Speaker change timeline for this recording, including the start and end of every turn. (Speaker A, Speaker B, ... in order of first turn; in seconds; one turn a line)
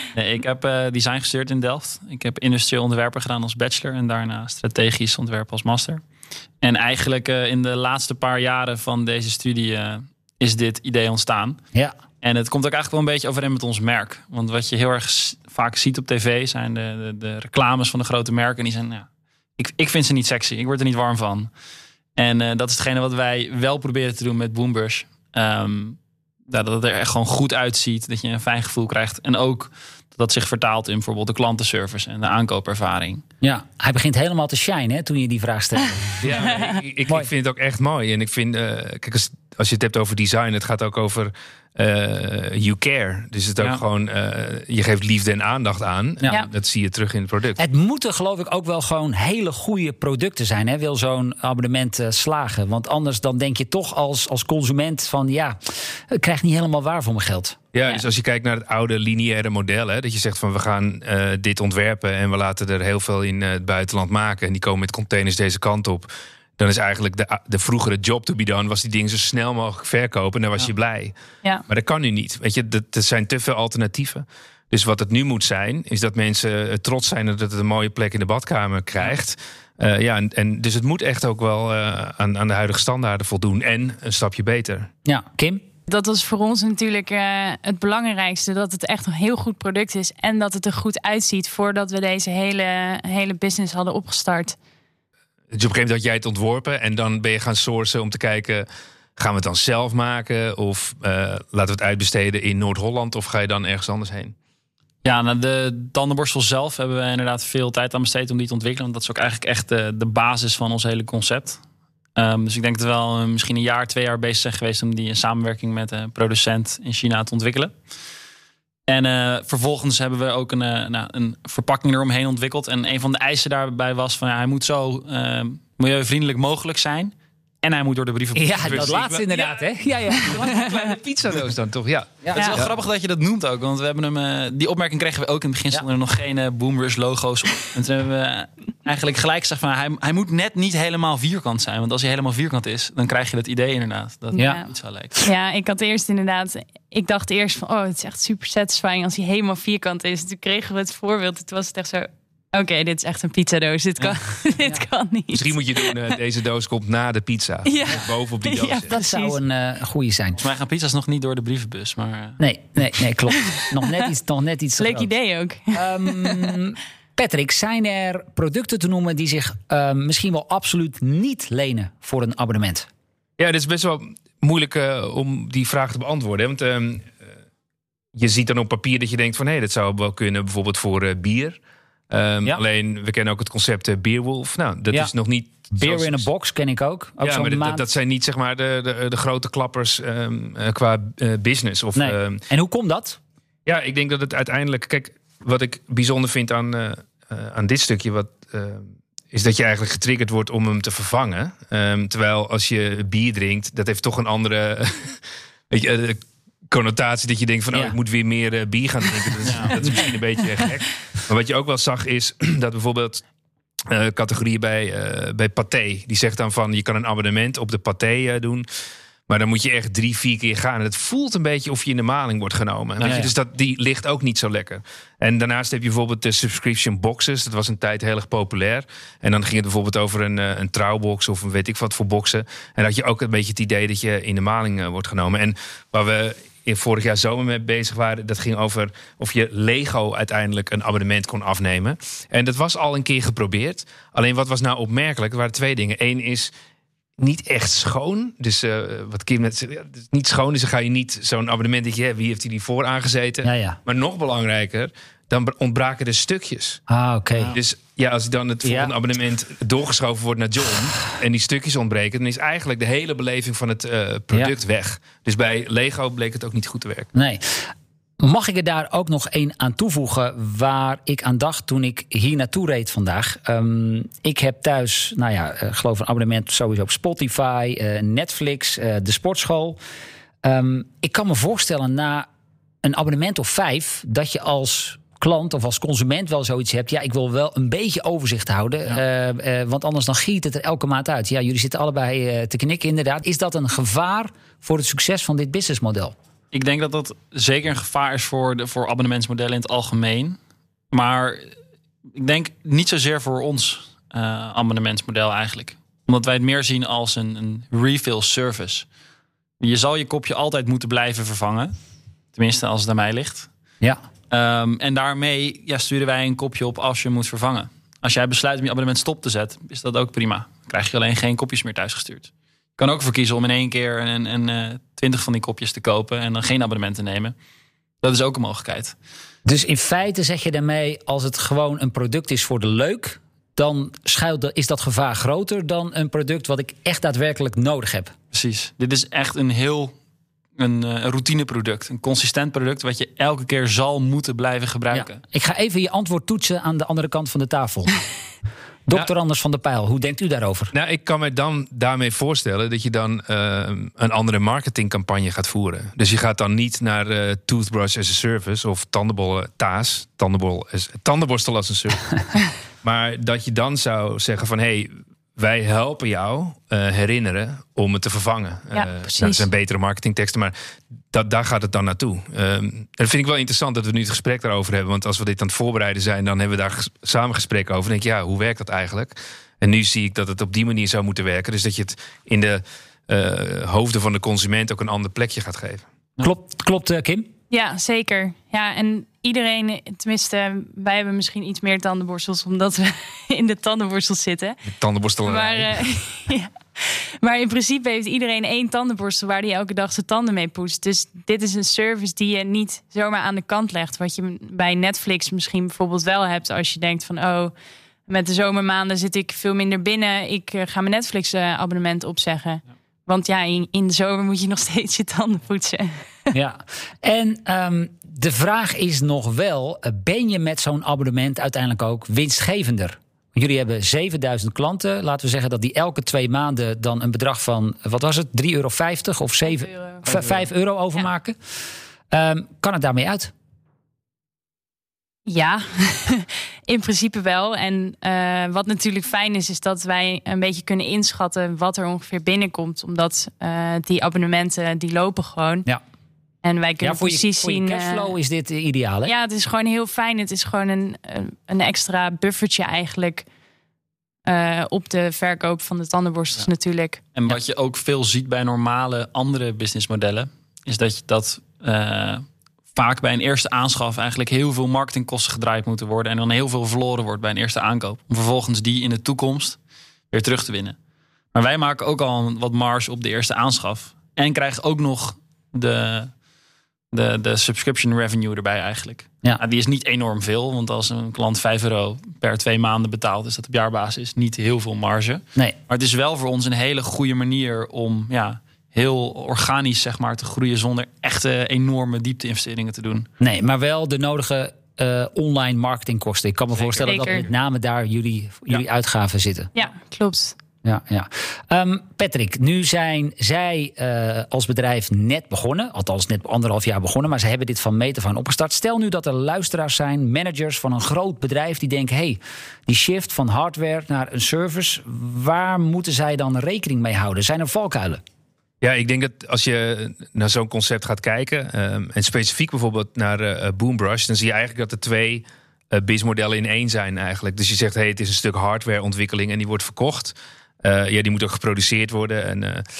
Speaker A: 0.1-6.0
Speaker A: 6.6-11.6
Speaker A: 12.2-19.1
Speaker A: 19.6-21.5
Speaker A: 22.1-33.2
Speaker B: 33.4-36.3
Speaker C: 36.2-47.6
Speaker D: 36.4-36.8
Speaker B: 47.6-57.6
Speaker C: 57.7-71.1
Speaker C: 71.7-84.9
Speaker B: 85.0-85.6
Speaker D: 85.9-94.6
Speaker C: 95.5-104.3
Speaker A: 105.0-111.6
Speaker A: 112.2-117.8
Speaker A: 118.9-129.0
Speaker B: 128.3-130.6
Speaker C: 128.6-132.7
Speaker D: 130.4-130.8
Speaker B: 132.2-132.5
Speaker A: 132.3-145.2
Speaker D: 144.3-144.7
Speaker D: 145.2-156.0
Speaker C: 155.3-158.9
Speaker D: 157.6-159.4
Speaker B: 158.9-160.4
Speaker A: 160.4-162.4
Speaker B: 162.4-165.1
Speaker D: 163.3-164.1
Speaker D: 164.8-166.6
Speaker B: 165.7-172.9
Speaker C: 173.4-177.2
Speaker C: 178.1-181.6
Speaker C: 182.1-186.2
Speaker B: 185.7-187.8
Speaker C: 187.2-192.4
Speaker B: 191.9-193.2
Speaker C: 193.7-213.2
Speaker A: 209.4-210.0
Speaker C: 213.8-218.7
Speaker C: 219.3-246.5
Speaker A: 223.0-223.3
Speaker B: 223.0-223.3
Speaker C: 247.2-256.8
Speaker B: 253.4-253.8
Speaker B: 256.9-257.5
Speaker C: 257.5-267.1
Speaker B: 258.6-258.9
Speaker B: 267.1-267.7
Speaker B: 268.2-279.8
Speaker B: 280.4-282.3
Speaker B: 282.8-296.1
Speaker A: 296.5-300.4
Speaker A: 300.9-301.5
Speaker A: 302.1-308.9
Speaker A: 309.6-311.7
Speaker A: 312.3-313.5
Speaker A: 314.3-327.3
Speaker A: 328.0-328.9
Speaker B: 329.4-338.1
Speaker A: 338.3-339.9
Speaker A: 340.6-345.2
Speaker B: 344.9-347.9
Speaker B: 348.9-350.7
Speaker C: 350.7-362.2
Speaker C: 362.8-370.5
Speaker D: 368.7-369.5
Speaker C: 371.1-385.8
Speaker B: 386.2-387.3
Speaker D: 387.5-394.6
Speaker C: 394.6-395.8
Speaker D: 395.2-407.5
Speaker D: 408.1-416.3
Speaker B: 416.3-431.4
Speaker D: 429.4-430.1
Speaker A: 430.1-430.4
Speaker B: 432.1-433.3
Speaker D: 435.2-445.6
Speaker D: 446.4-448.1
Speaker B: 446.8-449.1
Speaker D: 449.0-453.2
Speaker D: 454.2-457.0
Speaker A: 457.1-469.6
Speaker A: 470.1-470.8
Speaker A: 471.3-476.1
Speaker A: 476.9-493.1
Speaker B: 493.2-499.5
Speaker A: 496.5-497.0
Speaker D: 496.9-497.2
Speaker D: 499.5-500.4
Speaker B: 500.6-518.0
Speaker C: 518.6-532.6